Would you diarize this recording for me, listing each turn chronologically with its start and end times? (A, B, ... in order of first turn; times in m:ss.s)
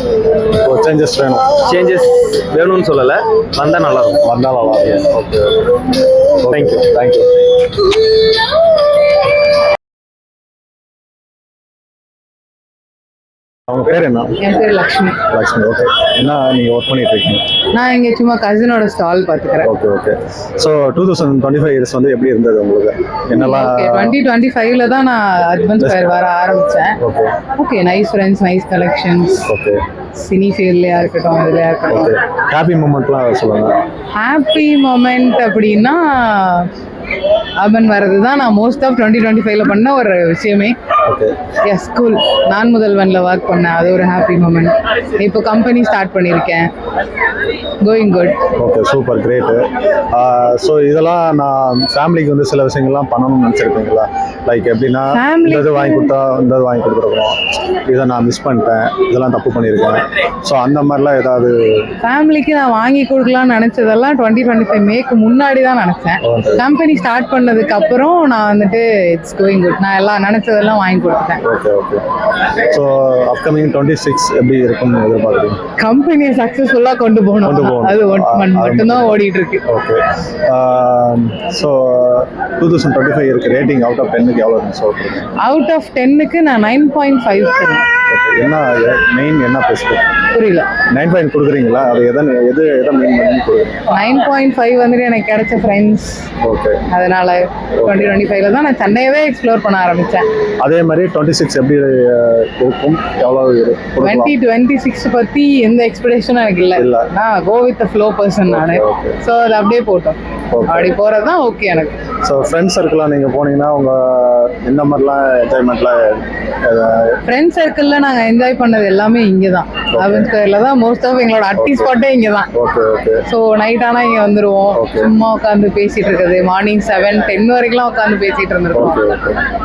0:00.6-0:01.5 A
0:01.6-0:04.2 B
0:04.2-0:05.7 A
0:06.4-0:07.3 A
0:06.5-0:06.9 B
0:13.7-0:14.4 A
0:14.4-0:15.2 C
0:15.3-0:17.5 A
0:17.7-0:19.7 C
0:19.6-0:24.2 A
0:23.3-0:27.0 C
0:25.8-0:26.2 A
0:27.0-0:27.4 A
0:27.6-0:29.5 C
0:29.5-0:29.8 A
0:30.2-0:32.1 C
0:31.9-0:33.8 A
0:34.2-0:36.7 C
0:37.6-0:40.8 C
0:41.0-0:41.4 A
0:41.6-0:46.7 C
0:47.8-0:48.4 C
0:48.6-1:01.9 A
0:55.1-0:56.1 C
1:02.0-1:11.4 C
1:06.2-1:06.6 A
1:11.4-1:12.0 A
1:12.6-1:15.6 A
1:15.8-1:19.6 C
1:17.4-1:25.3 A
1:25.4-1:27.9 C
1:28.1-1:30.1 A
1:30.3-1:30.7 C
1:30.9-1:33.9 A
1:33.9-1:36.2 C
1:36.4-1:36.8 A
1:36.9-1:40.3 C
1:37.8-1:38.2 A
1:40.6-1:44.3 A
1:44.0-1:52.0 C
1:46.8-1:47.1 A
1:48.5-1:49.2 A
1:50.5-1:50.9 A
1:52.2-1:57.2 A
1:57.3-2:02.5 C
1:59.9-2:00.3 A
2:01.6-2:01.9 A
2:02.5-2:03.2 A
2:03.3-2:09.0 C
2:04.7-2:05.1 A
2:08.7-2:09.4 A